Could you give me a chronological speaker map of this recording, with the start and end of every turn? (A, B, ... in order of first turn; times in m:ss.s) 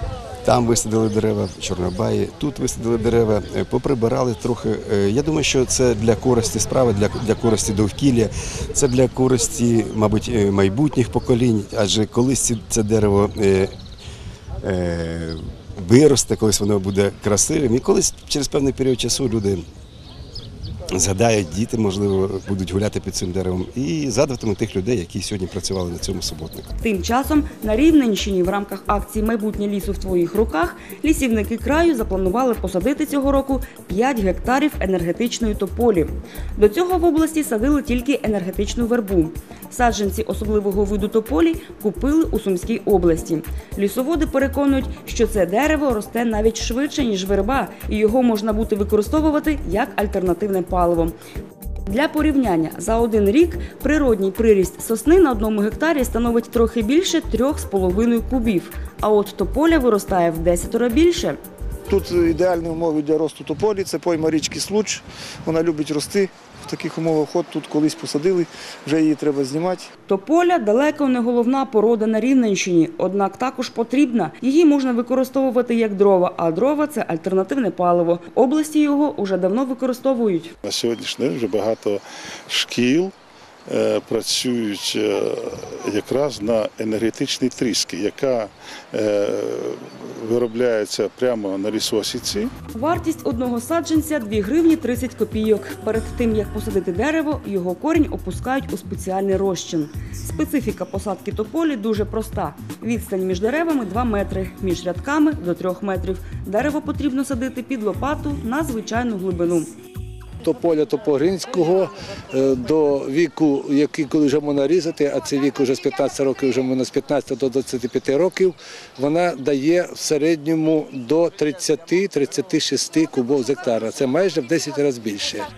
0:00.4-0:13.7 A
0:14.6-0:19.6 A
0:20.9-0:26.7 A
0:26.8-0:51.2 B
0:51.9-1:01.4 B
1:01.9-1:09.9 C
1:10.1-1:20.5 B
1:20.6-1:23.1 D
1:23.7-1:32.5 D
1:32.8-1:49.7 B
1:50.4-2:05.5 E